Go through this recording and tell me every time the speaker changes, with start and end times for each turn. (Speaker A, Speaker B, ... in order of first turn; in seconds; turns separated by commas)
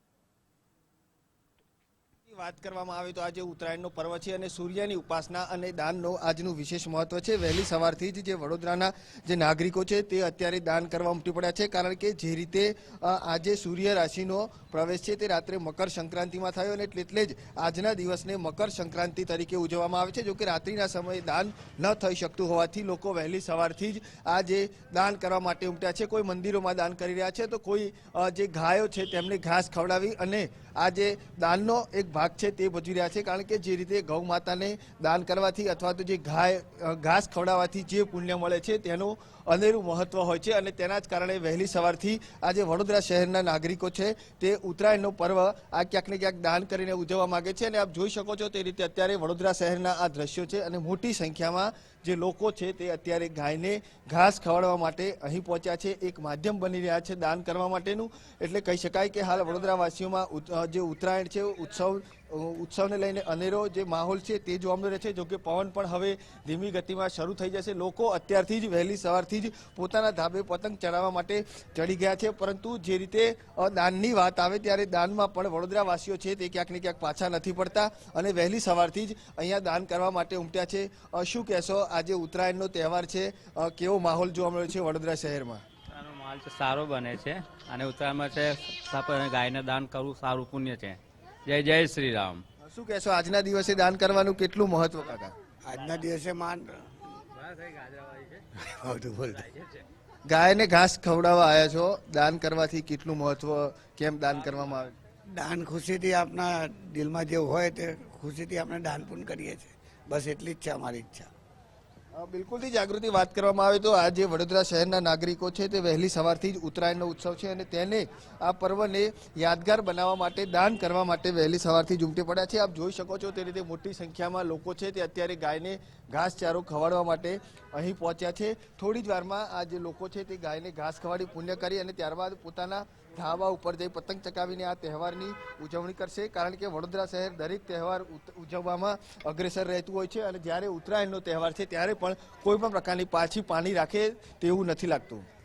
Speaker A: 2.3-85.6, Speaker B: 85.9-92.4, Speaker A: 92.6-95.3, Speaker C: 95.6-97.0, Speaker B: 97.5-98.4, Speaker C: 98.5-99.5, Speaker A: 100.2-104.9, Speaker C: 105.3-111.3, Speaker A: 112.1-145.2